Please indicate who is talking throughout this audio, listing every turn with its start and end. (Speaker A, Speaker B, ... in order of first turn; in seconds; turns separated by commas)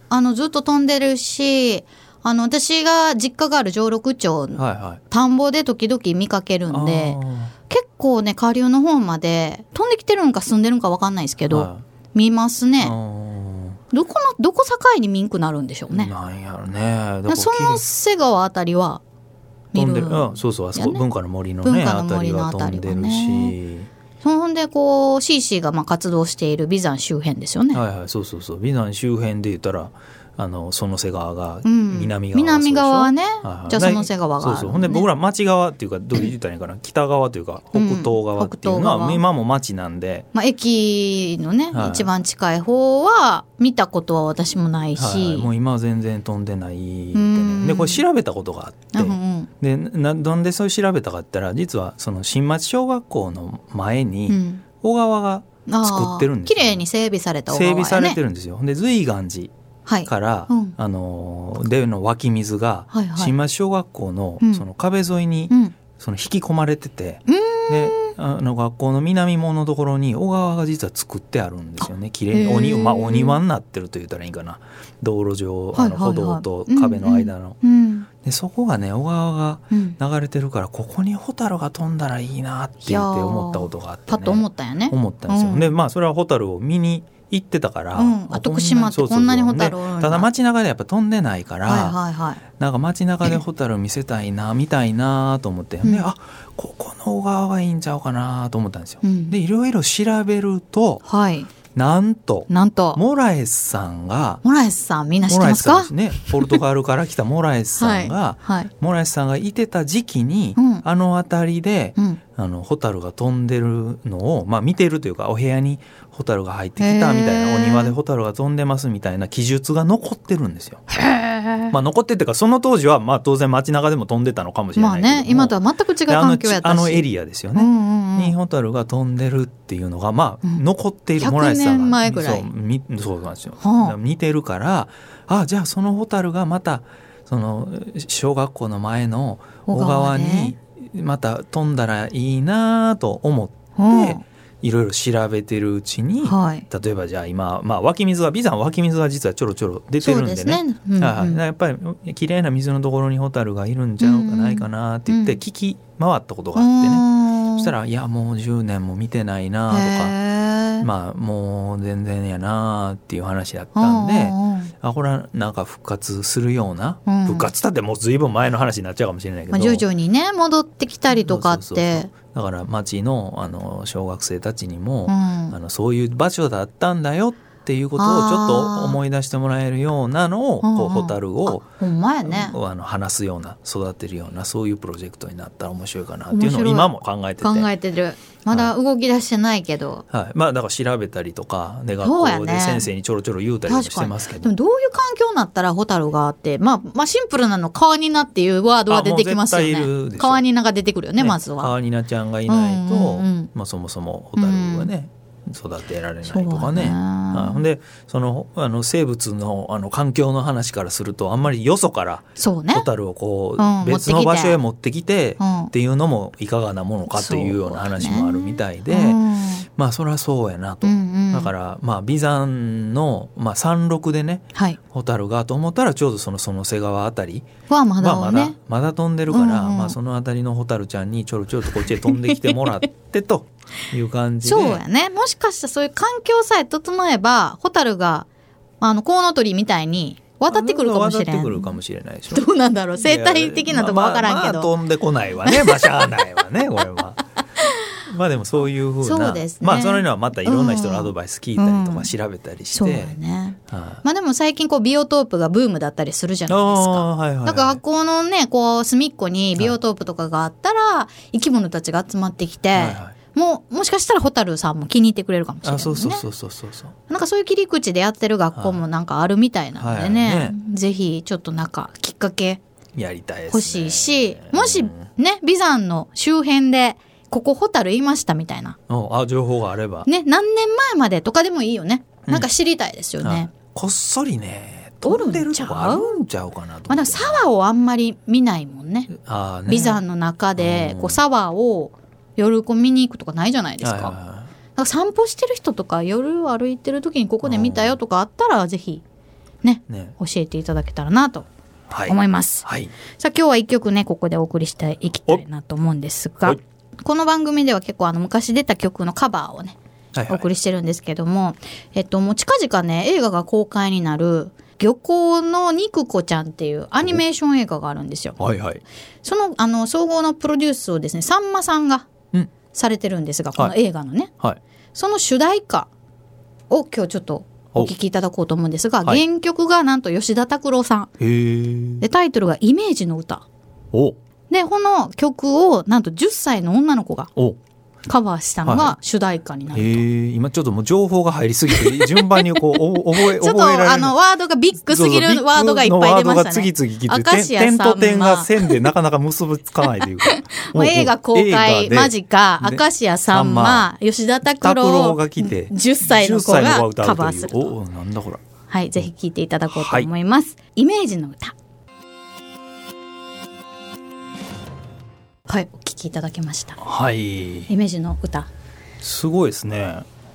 Speaker A: 0.1-12.9, Speaker B: 4.6-5.0, Speaker B: 6.7-7.5, Speaker B: 11.5-11.8, Speaker B: 12.8-13.8, Speaker A: 13.9-16.1, Speaker B: 15.9-17.8, Speaker A: 17.3-19.0, Speaker A: 19.7-21.0, Speaker B: 19.7-23.9, Speaker A: 21.6-23.6, Speaker A: 24.2-27.8, Speaker B: 27.7-40.2, Speaker A: 31.6-35.1, Speaker A: 37.7-39.2, Speaker A: 40.3-45.5, Speaker B: 41.7-42.1, Speaker B: 45.0-56.8, Speaker A: 47.1-48.0, Speaker A: 48.9-49.5, Speaker A: 54.3-54.6, Speaker A: 55.7-58.2, Speaker B: 57.5-59.5, Speaker A: 59.9-60.7, Speaker B: 60.0-77.6, Speaker A: 62.9-63.3, Speaker A: 67.3-68.1, Speaker A: 72.3-73.4, Speaker A: 75.7-78.1, Speaker B: 78.2-92.0, Speaker A: 79.7-80.0, Speaker A: 82.8-85.7, Speaker A: 88.0-90.3, Speaker A: 91.7-92.4, Speaker B: 92.5-101.0, Speaker A: 99.0-99.3, Speaker A: 101.0-101.5, Speaker B: 101.7-104.4, Speaker A: 102.5-103.0, Speaker A: 104.4-106.6, Speaker B: 105.2-120.8, Speaker A: 107.8-108.7, Speaker A: 110.6-110.8, Speaker A: 116.8-117.9, Speaker A: 120.9-121.7, Speaker B: 121.7-125.5, Speaker A: 124.8-128.3, Speaker B: 126.1-160.2, Speaker A: 131.2-132.5, Speaker A: 133.6-133.9, Speaker A: 139.7-140.5, Speaker A: 143.8-144.2, Speaker A: 146.2-146.7, Speaker A: 150.0-151.4, Speaker A: 154.0-155.4, Speaker A: 156.5-157.7, Speaker A: 159.7-160.9, Speaker B: 160.8-169.8, Speaker A: 163.7-164.7, Speaker A: 167.1-167.5, Speaker A: 169.5-172.1, Speaker B: 171.1-181.7, Speaker A: 175.1-175.5, Speaker A: 178.0-179.0, Speaker A: 180.6-182.6, Speaker B: 182.2-187.7, Speaker A: 186.3-190.0, Speaker B: 190.1-194.5, Speaker A: 192.0-192.9, Speaker A: 193.7-201.7, Speaker B: 198.9-200.4, Speaker B: 201.2-219.2, Speaker A: 202.5-203.5, Speaker A: 204.4-204.9, Speaker A: 206.2-207.6, Speaker A: 212.4-212.8, Speaker A: 213.6-214.6, Speaker A: 215.4-215.7, Speaker A: 217.1-219.7, Speaker B: 219.8-227.5, Speaker A: 220.8-221.5, Speaker A: 224.5-224.8, Speaker A: 227.7-228.6, Speaker B: 228.0-234.8, Speaker A: 229.3-229.9, Speaker A: 231.9-232.6, Speaker A: 234.4-238.3, Speaker A: 238.8-241.8, Speaker B: 240.5-242.5, Speaker A: 242.3-244.7, Speaker B: 243.0-247.2, Speaker A: 245.4-246.1, Speaker B: 248.1-253.2, Speaker A: 249.0-252.1, Speaker A: 252.7-266.2, Speaker B: 253.7-254.0, Speaker B: 256.5-257.8, Speaker B: 262.7-263.1, Speaker B: 265.6-266.9, Speaker A: 267.1-272.6, Speaker B: 269.8-270.6, Speaker B: 272.9-275.1, Speaker A: 273.5-278.8, Speaker B: 278.9-280.1, Speaker A: 280.1-283.5, Speaker B: 283.2-287.4, Speaker A: 285.0-286.1, Speaker A: 286.9-289.1, Speaker B: 289.1-290.0, Speaker A: 289.7-294.1, Speaker B: 290.6-291.2, Speaker B: 293.8-294.5, Speaker A: 294.8-299.0, Speaker B: 297.4-297.9, Speaker A: 299.6-301.5, Speaker B: 299.9-300.1, Speaker B: 301.9-302.9, Speaker A: 302.1-309.8, Speaker B: 310.1-310.4, Speaker A: 310.3-318.4, Speaker B: 318.4-318.8, Speaker A: 319.2-322.1, Speaker A: 322.7-324.3, Speaker A: 324.9-325.9, Speaker A: 326.7-331.1, Speaker B: 331.2-332.0, Speaker A: 332.0-333.4, Speaker A: 334.5-337.3, Speaker A: 338.1-340.0, Speaker B: 338.6-339.0, Speaker B: 339.7-344.1, Speaker A: 341.7-348.9, Speaker B: 344.9-353.9, Speaker A: 350.0-357.6, Speaker B: 354.6-358.4, Speaker A: 358.7-361.5, Speaker B: 359.7-360.1, Speaker A: 365.5-366.8, Speaker B: 366.8-367.7, Speaker A: 367.7-368.5, Speaker B: 369.0-370.1